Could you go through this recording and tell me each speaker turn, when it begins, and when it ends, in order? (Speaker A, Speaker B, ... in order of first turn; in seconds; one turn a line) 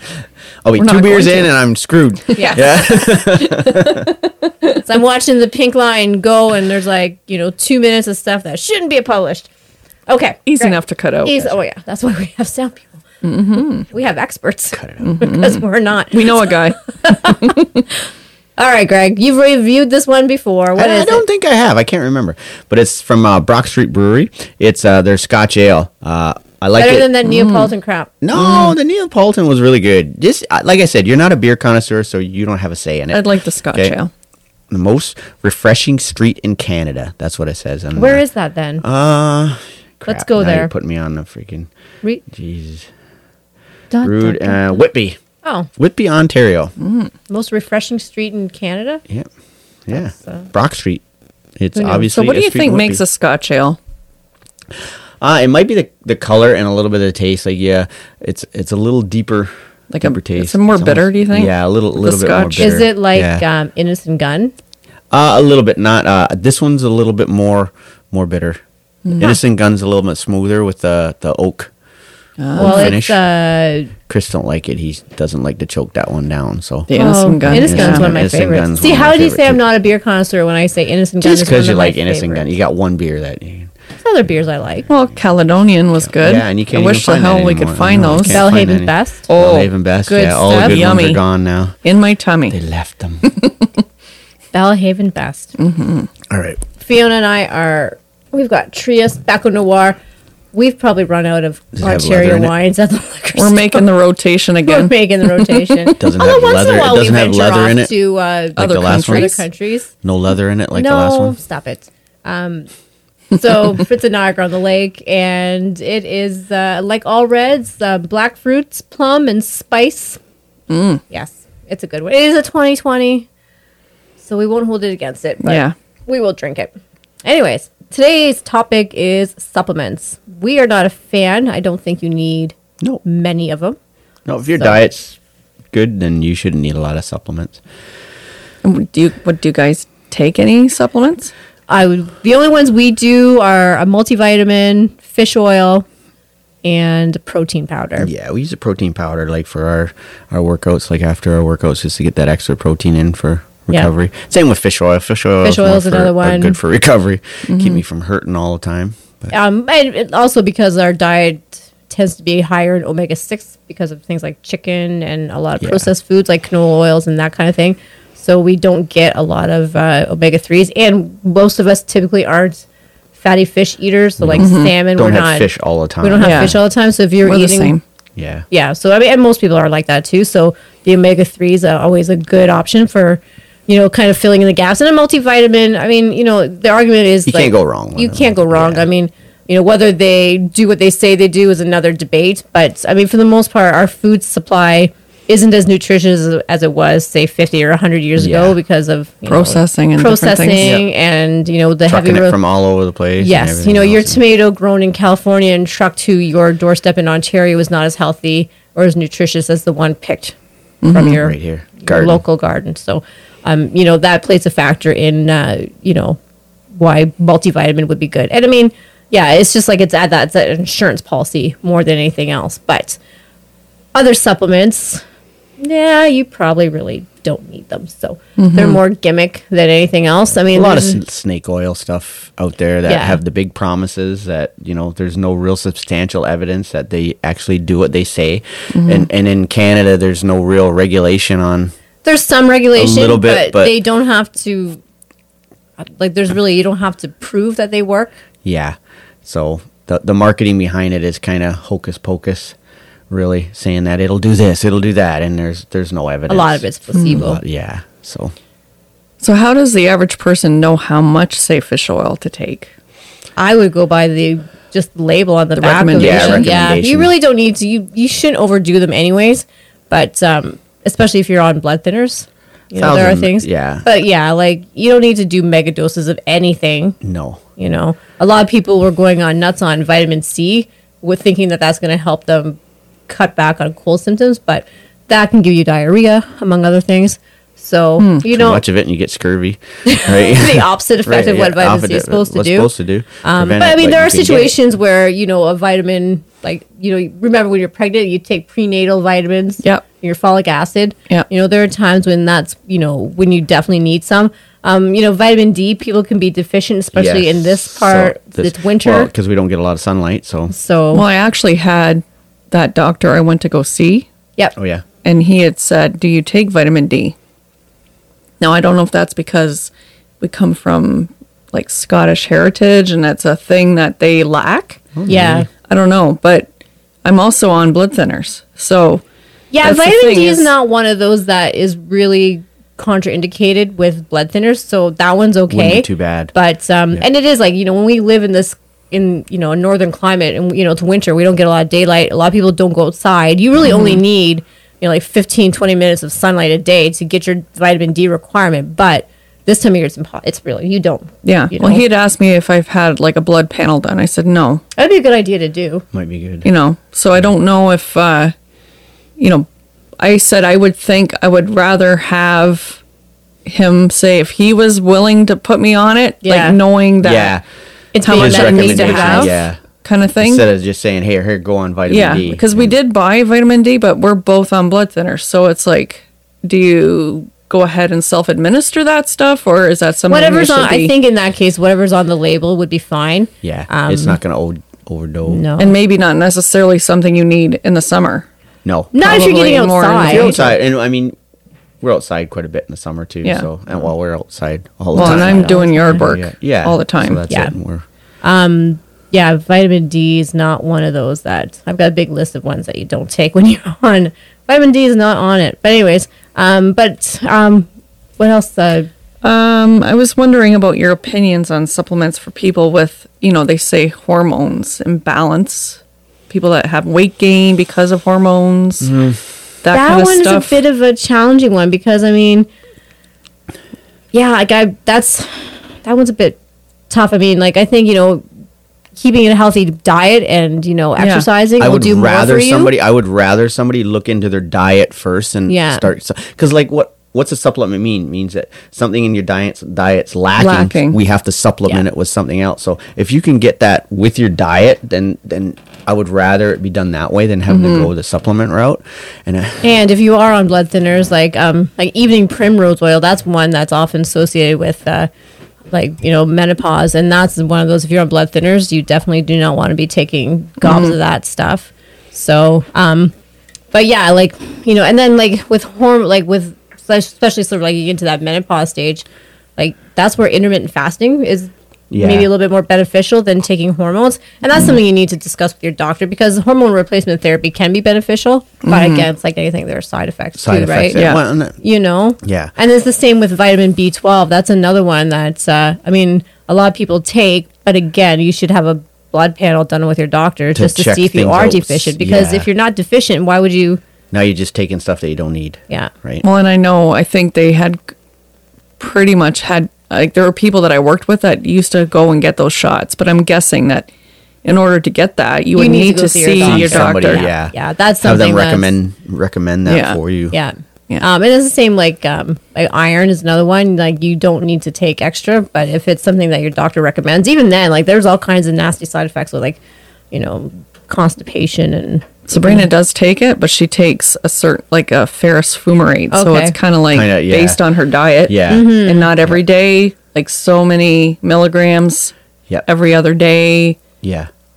Speaker A: 0.6-4.1
Speaker B: 0.8-1.5
Speaker C: 2.4-3.2
Speaker C: 4.7-9.5
Speaker C: 10.1-13.0
Speaker B: 10.5-11.5
Speaker B: 13.2-13.9
Speaker C: 13.9-17.8
Speaker A: 14.7-15.1
Speaker B: 15.0-17.8
Speaker C: 18.6-21.2
Speaker A: 20.8-27.1
Speaker C: 26.8-28.1
Speaker B: 27.2-27.7
Speaker A: 28.2-34.0
Speaker B: 28.3-28.8
Speaker B: 33.1-34.1
Speaker A: 34.7-38.2
Speaker C: 38.0-38.8
Speaker A: 38.8-41.7
Speaker C: 40.0-40.7
Speaker A: 42.3-42.9
Speaker C: 43.9-44.9
Speaker A: 44.0-45.2
Speaker C: 45.4-45.7
Speaker A: 45.8-46.7
Speaker B: 46.8-47.1
Speaker C: 47.3-49.0
Speaker A: 49.9-51.0
Speaker C: 49.9-50.5
Speaker A: 51.6-53.0
Speaker C: 51.7-52.1
Speaker B: 52.0-53.8
Speaker A: 55.2-63.4
Speaker B: 59.9-62.8
Speaker C: 62.6-64.5
Speaker A: 65.1-68.6
Speaker B: 69.1-69.4
Speaker A: 69.2-71.7
Speaker B: 72.4-73.0
Speaker A: 72.6-73.2
Speaker C: 72.6-73.9
Speaker A: 74.1-79.6
Speaker B: 76.9-78.1
Speaker C: 76.9-82.5
Speaker A: 81.2-83.7
Speaker C: 84.0-84.9
Speaker B: 84.9-88.5
Speaker A: 86.1-91.8
Speaker C: 88.2-89.3
Speaker B: 89.3-89.7
Speaker C: 90.1-90.8
Speaker B: 90.5-91.2
Speaker B: 91.8-92.6
Speaker A: 92.5-93.3
Speaker C: 94.5-95.5
Speaker B: 95.6-96.1
Speaker A: 96.3-96.6
Speaker C: 96.8-100.0
Speaker C: 100.5-103.8
Speaker A: 101.8-102.5
Speaker B: 103.3-106.0
Speaker C: 104.6-109.9
Speaker A: 106.0-107.9
Speaker A: 108.6-109.4
Speaker B: 108.6-109.4
Speaker A: 110.0-111.4
Speaker C: 110.7-112.7
Speaker C: 113.3-120.2
Speaker B: 120.7-121.0
Speaker C: 121.1-123.3
Speaker C: 124.2-126.7
Speaker B: 125.4-125.7
Speaker C: 127.2-133.8
Speaker A: 134.2-135.2
Speaker C: 134.6-134.8
Speaker A: 135.7-137.6
Speaker B: 138.6-141.3
Speaker C: 141.7-145.8
Speaker C: 146.6-148.1
Speaker A: 148.0-159.3
Speaker C: 155.4-156.6
Speaker B: 157.5-157.8
Speaker C: 159.3-177.8
Speaker A: 165.6-165.9
Speaker A: 174.2-176.6
Speaker B: 174.4-174.7
Speaker B: 176.2-176.6
Speaker B: 177.2-177.8
Speaker A: 178.2-178.4
Speaker C: 178.5-202.4
Speaker A: 187.2-188.9
Speaker A: 198.2-198.6
Speaker B: 199.2-200.7
Speaker A: 200.6-200.8
Speaker A: 201.9-204.2
Speaker C: 203.2-210.3
Speaker B: 210.8-211.2
Speaker C: 210.9-216.2
Speaker A: 211.1-212.2
Speaker C: 216.8-223.0
Speaker C: 223.9-225.0
Speaker C: 225.6-231.0
Speaker B: 228.4-228.8
Speaker A: 230.5-241.7
Speaker C: 232.8-233.2
Speaker B: 238.7-239.1
Speaker C: 242.0-244.8
Speaker A: 242.7-243.8
Speaker C: 245.8-248.1
Speaker A: 248.4-252.6
Speaker A: 253.1-258.3
Speaker C: 256.3-257.4
Speaker B: 256.9-257.2
Speaker B: 259.2-262.7
Speaker C: 263.4-277.0
Speaker B: 265.6-266.5
Speaker A: 266.0-267.1
Speaker A: 272.8-273.9
Speaker A: 277.0-277.4
Speaker C: 277.6-288.6
Speaker B: 288.0-288.3
Speaker A: 288.2-294.6
Speaker C: 289.9-292.7
Speaker C: 293.2-309.1
Speaker A: 306.9-310.5
Speaker C: 310.5-311.0
Speaker B: 310.9-314.1
Speaker A: 314.6-314.9
Speaker B: 315.0-317.1
Speaker B: 318.4-324.8
Speaker A: 324.9-325.5
Speaker C: 325.1-325.5
Speaker B: 325.7-326.5
Speaker B: 327.0-329.0
Speaker C: 329.5-351.8
Speaker B: 329.6-330.5
Speaker A: 335.5-336.3
Speaker B: 343.6-344.0
Speaker B: 351.2-354.6
Speaker C: 354.8-355.9
Speaker A: 355.9-356.5
Speaker B: 356.4-358.3
Speaker B: 359.2-359.5
Speaker B: 360.0-362.8
Speaker B: 363.5-367.4
Speaker C: 366.2-366.6
Speaker A: 367.0-367.4
Speaker C: 367.9-369.5
Speaker B: 368.0-370.4
Speaker A: 368.1-369.6
Speaker A: 370.2-372.7
Speaker B: 371.9-380.9
Speaker C: 380.1-384.2
Speaker A: 383.4-385.4
Speaker C: 385.2-385.7
Speaker B: 385.6-388.3
Speaker A: 388.6-389.0
Speaker C: 388.9-390.4
Speaker B: 389.0-390.5
Speaker A: 390.0-391.1
Speaker A: 391.8-397.9
Speaker C: 394.9-396.0
Speaker B: 394.9-397.2
Speaker C: 397.3-397.5
Speaker C: 398.2-407.7
Speaker C: 408.2-408.9
Speaker B: 409.2-418.9
Speaker A: 418.8-419.2
Speaker B: 419.6-420.6
Speaker C: 419.7-422.5
Speaker C: 424.1-426.4
Speaker C: 426.9-428.2
Speaker C: 429.0-432.7
Speaker B: 431.0-431.2
Speaker A: 431.6-449.7
Speaker C: 435.5-435.9
Speaker B: 440.4-441.0
Speaker B: 447.5-447.9
Speaker C: 449.6-455.1
Speaker C: 455.7-463.1
Speaker B: 460.6-460.9
Speaker C: 463.7-469.1
Speaker C: 469.6-493.8
Speaker A: 471.9-472.3
Speaker B: 478.6-479.1
Speaker A: 480.4-481.6
Speaker B: 480.9-481.2
Speaker A: 482.2-482.5
Speaker A: 490.6-492.5
Speaker A: 494.1-496.2
Speaker B: 496.2-497.8
Speaker B: 498.8-503.9
Speaker B: 504.4-507.2
Speaker C: 505.6-508.7
Speaker A: 506.4-510.4
Speaker B: 509.6-510.0
Speaker C: 510.3-519.6
Speaker C: 520.1-522.7
Speaker B: 522.3-532.1
Speaker C: 526.1-526.6
Speaker A: 526.9-527.6
Speaker A: 528.3-528.7
Speaker C: 528.5-529.1
Speaker B: 532.6-533.8
Speaker A: 534.0-534.3